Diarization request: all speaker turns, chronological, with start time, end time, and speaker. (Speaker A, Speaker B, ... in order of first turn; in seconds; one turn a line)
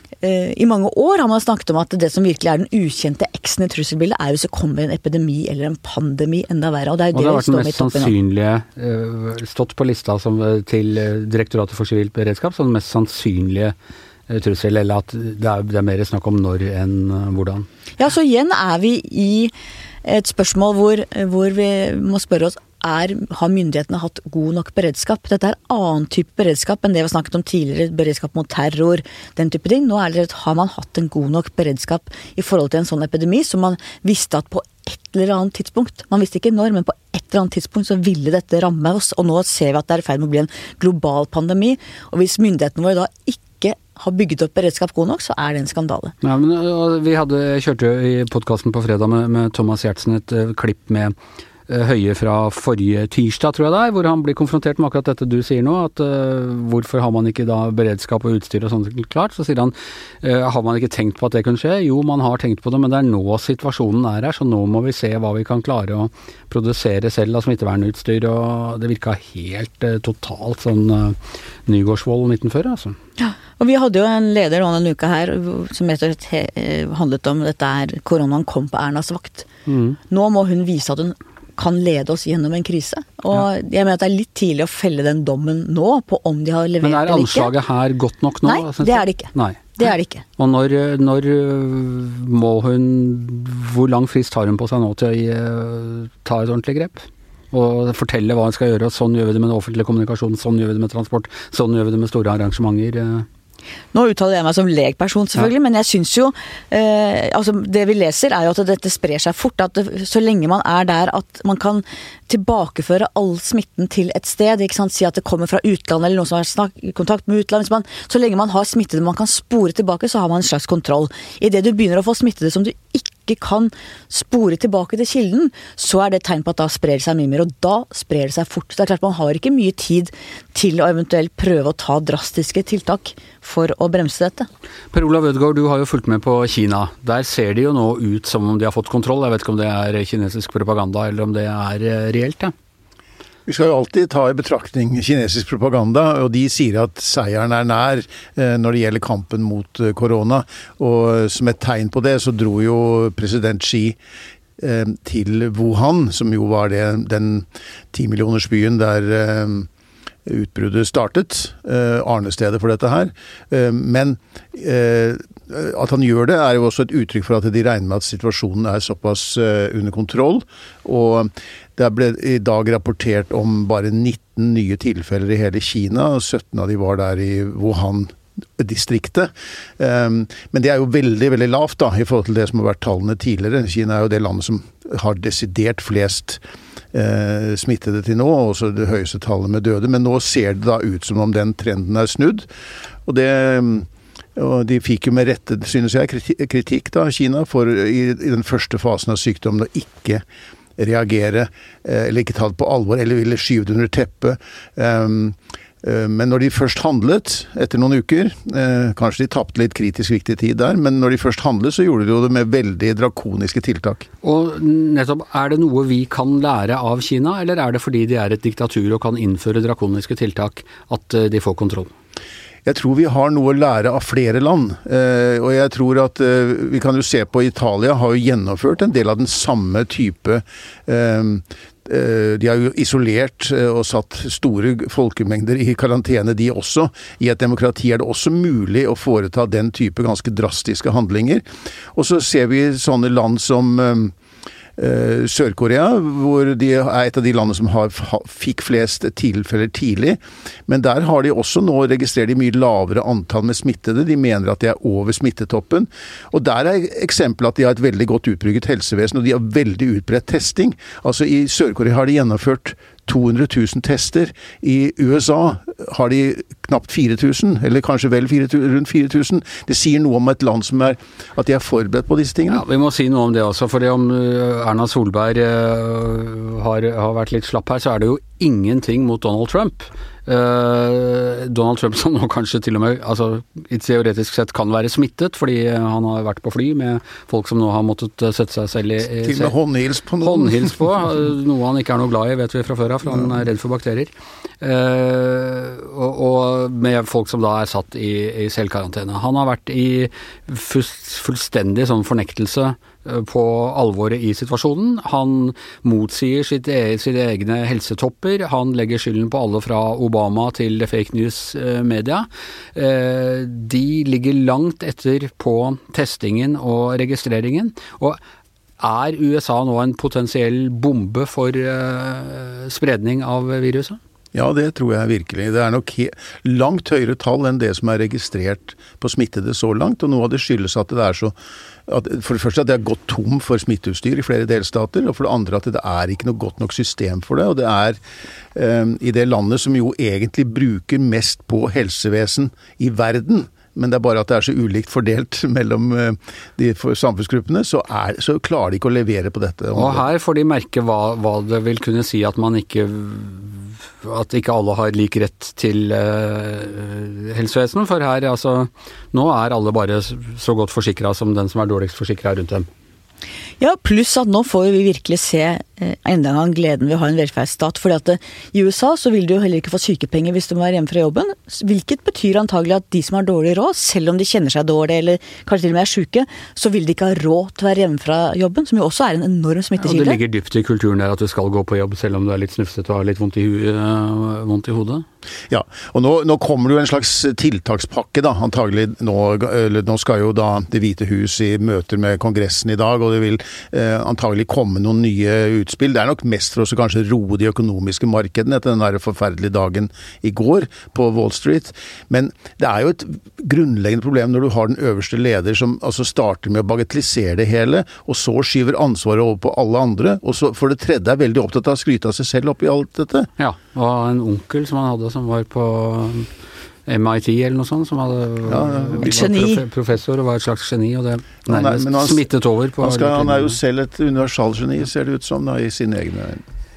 Speaker A: 0.2-8.1
Speaker B: 7.1-13.7
Speaker B: 14.3-17.7
Speaker A: 18.0-19.5
Speaker A: 20.0-46.1
Speaker B: 46.2-51.1
Speaker B: 51.7-73.0
Speaker A: 73.2-79.5
Speaker B: 79.7-80.0
Speaker A: 80.1-87.5
Speaker B: 86.8-89.8
Speaker A: 88.4-90.2
Speaker B: 90.4-103.2
Speaker A: 103.9-134.5
Speaker B: 134.9-142.5
Speaker C: 143.5-154.0
Speaker C: 154.6-159.7
Speaker C: 160.2-186.4
Speaker C: 186.9-192.4
Speaker C: 193.1-200.2
Speaker C: 200.8-214.0
Speaker B: 214.2-221.9
Speaker C: 222.6-241.4
Speaker C: 241.9-244.1
Speaker C: 244.8-272.6
Speaker B: 272.5-289.5
Speaker C: 289.2-290.8
Speaker B: 290.2-318.2
Speaker B: 318.8-324.0
Speaker C: 324.3-331.3
Speaker C: 331.9-338.0
Speaker C: 338.5-350.0
Speaker B: 349.7-362.7
Speaker A: 363.6-380.2
Speaker B: 379.8-385.0
Speaker C: 385.5-413.3
Speaker B: 413.4-416.3
Speaker B: 416.9-423.6
Speaker C: 418.5-419.3
Speaker A: 419.0-419.6
Speaker C: 421.4-422.2
Speaker C: 422.8-426.4